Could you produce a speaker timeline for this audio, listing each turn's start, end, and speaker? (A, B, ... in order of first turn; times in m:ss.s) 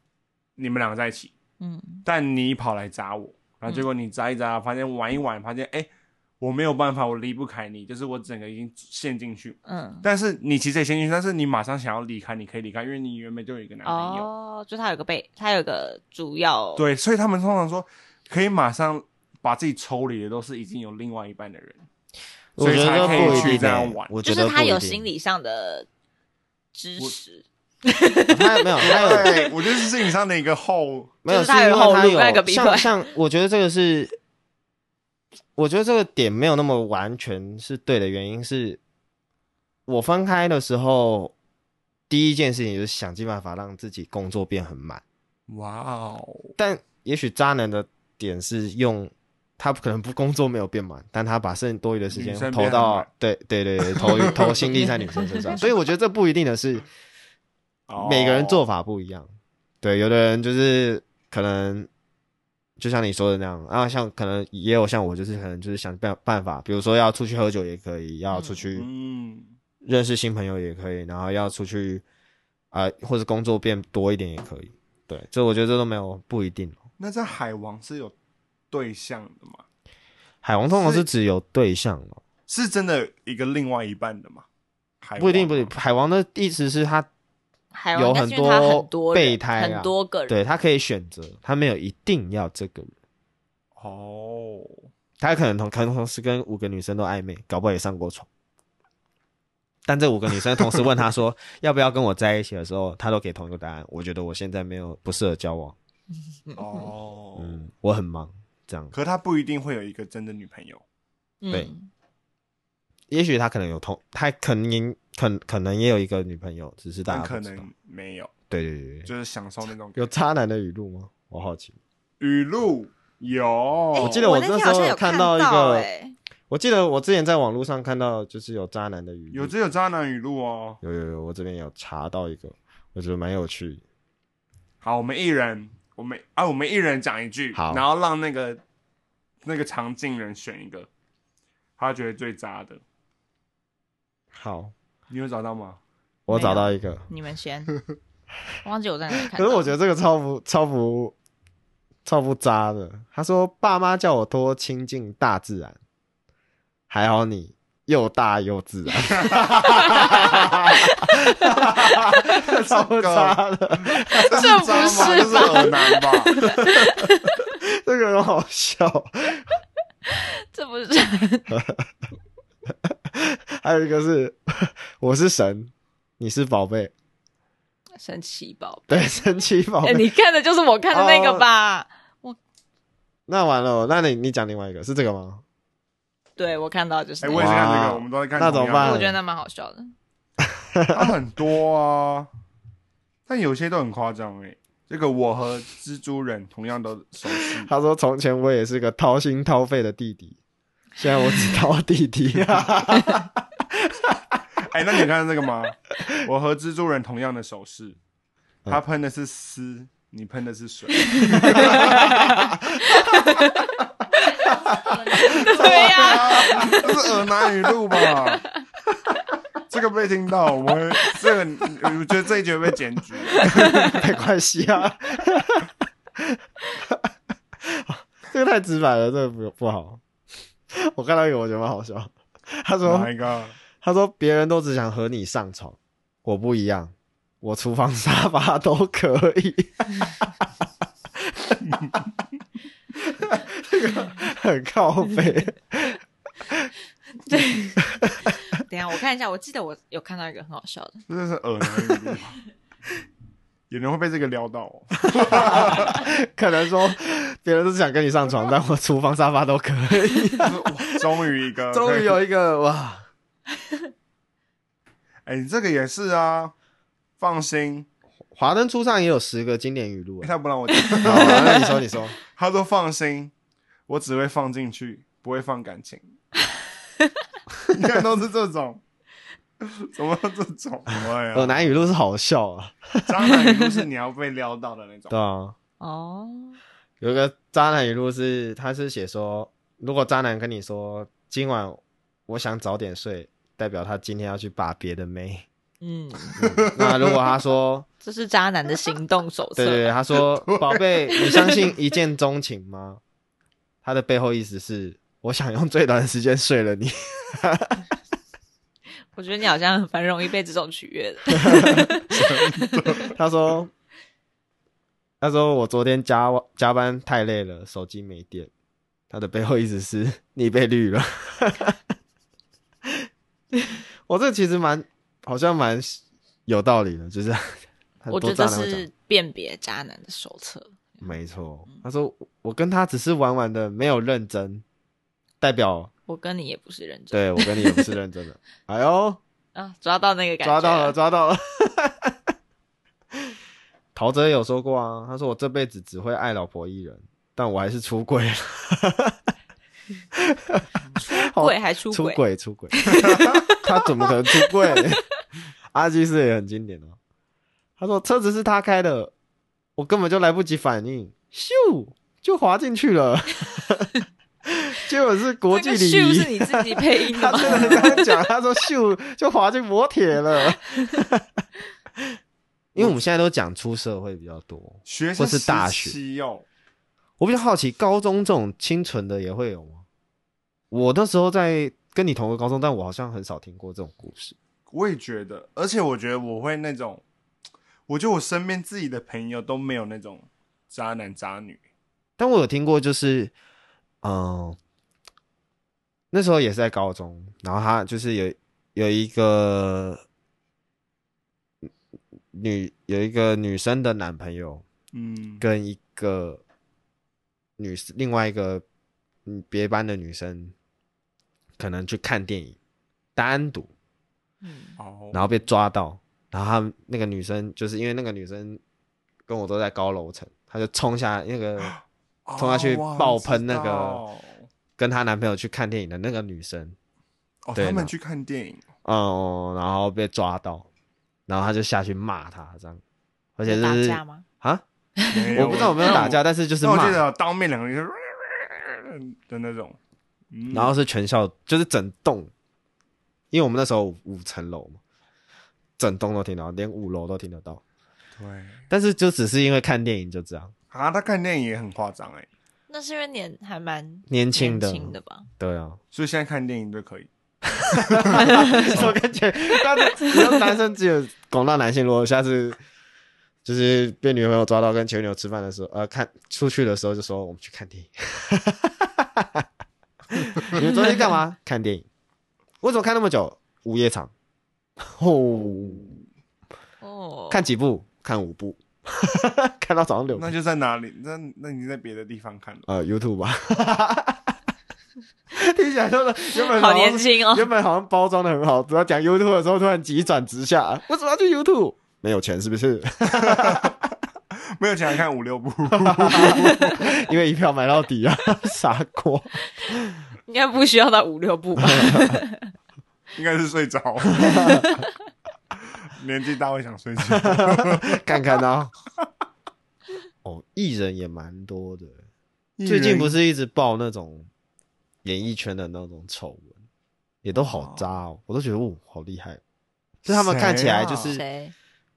0:00.6-0:01.3 A
0:01.6-0:02.0 B
0:02.0-0:14.3 A
0:09.7-0:10.1 B
0:13.8-0:16.8 B
0:16.8-0:21.9 A
0:22.6-0:25.1 C
0:22.6-0:24.2 A
0:22.7-0:23.7 B
0:24.2-0:25.9 B
0:26.7-0:29.6 B
0:28.3-0:29.4 C
0:28.8-0:31.2 A
0:31.2-0:34.2 C
0:31.3-0:33.0 B
0:35.6-0:38.8 C
0:39.9-0:41.3 C
0:42.1-0:45.0 C
0:45.5-0:46.5 A
0:46.6-0:56.9 C
0:52.1-0:53.1 A
0:53.8-0:54.8 A
0:54.0-0:55.6 B
0:57.9-0:58.6 A
0:58.0-0:59.3 C
0:59.8-1:01.9 C
1:02.8-1:08.9 C
1:08.3-1:08.6 B
1:08.7-1:09.6 A
1:09.8-1:12.0 C
1:12.7-1:16.8 C
1:17.0-1:18.1 A
1:18.7-1:19.6 A
1:20.4-1:22.2 C
1:20.7-1:21.1 A
1:22.5-1:24.5 A
1:25.0-1:25.7 A
1:25.2-1:27.1 C
1:27.7-1:30.4 B
1:28.0-1:32.9 C
1:33.8-1:34.9 A
1:35.2-1:38.3 C
1:39.9-1:45.8 C
1:46.5-1:46.9 B
1:46.6-1:47.7 A
1:47.4-1:48.9 C
1:48.9-1:50.8 A
1:51.4-1:51.9 B
1:53.1-1:57.7 C
1:57.1-1:58.3 A
1:58.5-1:59.1 C
1:59.1-2:00.1 A
2:00.0-2:01.8 C
2:02.2-2:04.2 A
2:03.9-2:06.2 B
2:04.0-2:05.9 C
2:06.5-2:09.5 C
2:09.3-2:10.8 A
2:10.8-2:13.8 C
2:14.8-2:18.6 A
2:17.5-2:17.8 C
2:19.4-2:20.9 A
2:21.8-2:22.8 A
2:24.3-2:24.7 C
2:25.1-2:25.8 A
2:26.3-2:27.0 C
2:26.3-2:27.7 B
2:28.6-2:29.7 B
2:29.3-2:31.2 C
2:32.0-2:35.8 C
2:36.9-2:45.7 C
2:39.1-2:40.0 A
2:39.6-2:42.4 B
2:42.3-2:46.4 A
2:44.1-2:47.5 B
2:46.4-2:49.5 C
2:50.1-2:51.6 B
2:51.5-2:51.8 C
2:52.9-2:56.9 C
2:58.0-2:59.2 B
2:58.9-3:00.1 C
2:59.8-3:02.4 B
3:00.9-3:01.5 C
3:03.3-3:05.4 C
3:06.4-3:07.7 B
3:07.2-3:09.1 A
3:07.4-3:09.2 C
3:08.8-3:09.9 B
3:10.4-3:11.1 C
3:10.9-3:12.3 A
3:13.3-3:17.7 A
3:17.3-3:20.4 C
3:21.0-3:24.4 C
3:22.4-3:22.7 A
3:24.6-3:28.0 A
3:28.7-3:32.4 A
3:31.1-3:36.9 B
3:31.5-3:33.4 C
3:34.5-3:36.9 C
3:35.3-3:38.4 A
3:39.7-3:44.0 A
3:43.4-3:44.0 B
3:43.4-3:47.1 C
3:47.6-3:50.0 C
3:50.7-3:53.1 C
3:52.8-3:53.6 A
3:53.8-4:00.5 C
4:01.2-4:01.7 C
4:03.0-4:06.7 C
4:07.3-4:07.8 B
4:07.8-4:08.4 C
4:08.5-4:11.0 B
4:11.1-4:12.4 A
4:11.8-4:12.1 C
4:13.7-4:16.0 A
4:15.2-4:21.0 C
4:20.4-4:22.2 A
4:21.7-4:23.1 C
4:25.3-4:26.5 A
4:27.2-4:27.9 A
4:28.3-4:30.3 C
4:30.2-4:31.7 A
4:30.7-4:31.7 B
4:31.0-4:32.2 C
4:32.2-4:33.3 A
4:33.9-4:36.1 A
4:37.7-4:38.8 A
4:39.6-4:41.8 A
4:41.3-4:43.3 C
4:43.1-4:45.2 A
4:45.1-4:45.6 C
4:45.8-4:46.6 B
4:47.0-4:55.5 C
4:55.8-4:56.4 B
4:56.3-4:57.2 A
4:56.4-4:57.9 C
4:58.0-4:59.9 B
4:59.6-5:03.0 C
5:00.5-5:00.8 A
5:01.1-5:01.6 B
5:03.8-5:07.8 C
5:09.1-5:13.1 B
5:11.4-5:11.9 C
5:11.9-5:13.2 A
5:13.0-5:13.7 C
5:15.2-5:18.5 C
5:19.1-5:21.8 C
5:24.1-5:28.9 C
5:28.1-5:31.1 B
5:31.0-5:34.6 C
5:35.4-5:35.9 C
5:36.1-5:37.9 B
5:37.1-5:39.2 C
5:39.6-5:41.0 B
5:40.4-5:42.2 C
5:44.0-5:49.2 C
5:50.2-5:55.0 C
5:51.0-5:52.2 B
5:52.7-5:54.9 B
5:55.7-5:57.0 C
5:57.8-5:59.1 C
5:59.8-6:03.9 C
6:04.5-6:11.4 C
6:05.5-6:08.0 B
6:07.4-6:08.0 A
6:12.8-6:16.0 C
6:12.8-6:13.0 A
6:14.9-6:16.4 A
6:17.2-6:19.8 C
6:20.7-6:24.4 C
6:24.7-6:27.0 A
6:27.9-6:31.6 A
6:32.2-6:33.3 C
6:34.0-6:34.6 C
6:36.1-6:40.0 C
6:42.3-6:44.6 C
6:44.9-6:45.4 A
6:45.4-6:46.4 C
6:47.6-6:48.6 C
6:49.3-6:50.5 C
6:51.6-6:52.6 C
6:53.2-6:53.7 C
6:54.4-6:54.8 B
6:54.8-6:55.2 A
6:55.1-6:58.6 C
6:59.3-7:01.8 C
7:01.6-7:04.5 A
7:02.4-7:04.0 C
7:04.8-7:06.8 C
7:07.4-7:08.6 A
7:07.6-7:07.9 C
7:08.8-7:10.7 C
7:11.3-7:12.8 C
7:13.4-7:14.6 C
7:13.5-7:14.2 B
7:15.0-7:16.0 B
7:15.1-7:19.8 A
7:15.3-7:17.0 C
7:20.3-7:20.7 A
7:20.5-7:22.3 C
7:23.3-7:24.8 C
7:25.8-7:27.6 C
7:28.2-7:28.7 A
7:28.7-7:30.5 C
7:30.7-7:32.3 A
7:32.7-7:35.3 B
7:34.1-7:35.8 C
7:35.9-7:39.0 A
7:37.7-7:42.6 C
7:38.2-7:38.7 B
7:40.0-7:40.3 B
7:43.4-7:49.5 C
7:50.1-7:51.9 C
7:50.6-7:51.0 B
7:52.6-7:54.1 C
7:54.8-7:55.9 C
7:56.8-7:57.4 B
7:57.3-8:00.3 C
8:00.1-8:02.7 A
8:02.7-8:04.4 C
8:05.3-8:13.7 C
8:06.3-8:07.5 B
8:13.1-8:13.8 A
8:14.6-8:17.0 A
8:15.8-8:20.0 C
8:20.3-8:22.5 B
8:21.7-8:22.2 C
8:23.1-8:24.8 A
8:24.2-8:24.7 C
8:25.9-8:28.2 A
8:27.1-8:28.7 C
8:30.2-8:32.0 C
8:32.6-8:33.2 A
8:32.7-8:34.3 C
8:35.0-8:36.5 C
8:37.2-8:39.4 C
8:37.4-8:37.9 A
8:40.0-8:41.2 C
8:40.1-8:41.2 A
8:41.1-8:41.5 B